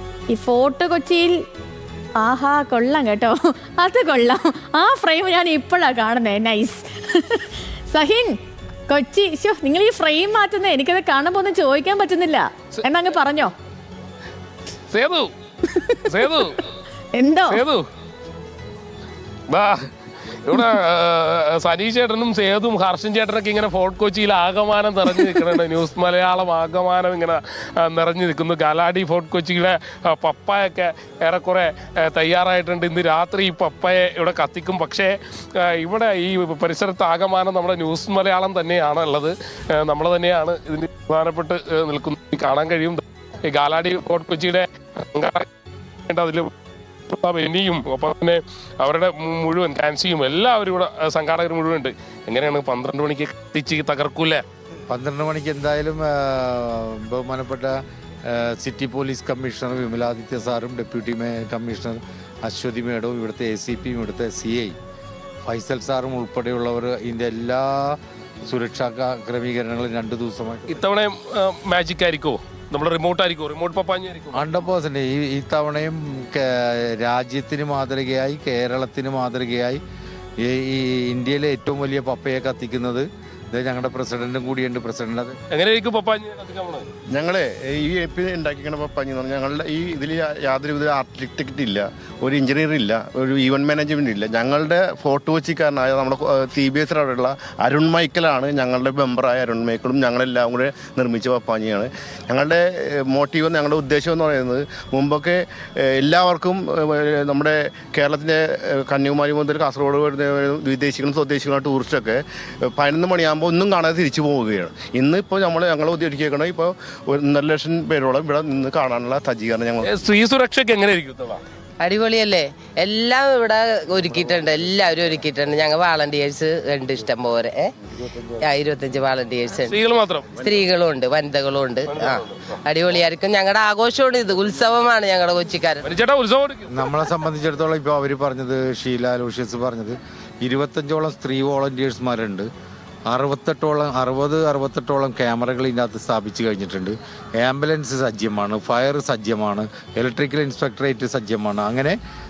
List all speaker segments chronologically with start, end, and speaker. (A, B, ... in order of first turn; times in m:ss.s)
0:00.3-0:01.4 A
0:02.2-0:08.4 A
0:08.9-0:13.5 A
0:14.9-0:15.3 B
0:15.7-0:16.4 A
0:16.1-0:16.6 B
0:17.1-0:17.6 A
0:17.5-0:17.9 B
0:19.5-0:19.9 B
0:20.4-0:45.5 B
0:46.1-0:46.5 B
0:47.1-0:54.4 B
0:54.9-1:04.8 C
1:05.4-1:10.8 C
1:10.7-1:14.4 B
1:14.3-1:19.8 C
1:20.4-1:25.4 C
1:25.5-1:26.9 B
1:27.1-1:59.9 D
1:59.8-2:01.4 B
2:01.8-2:07.7 E
2:08.4-2:09.7 E
2:09.6-2:10.4 B
2:10.4-2:15.8 E
2:11.9-2:12.5 B
2:15.8-2:16.9 B
2:16.7-2:22.5 C
2:23.1-2:32.0 C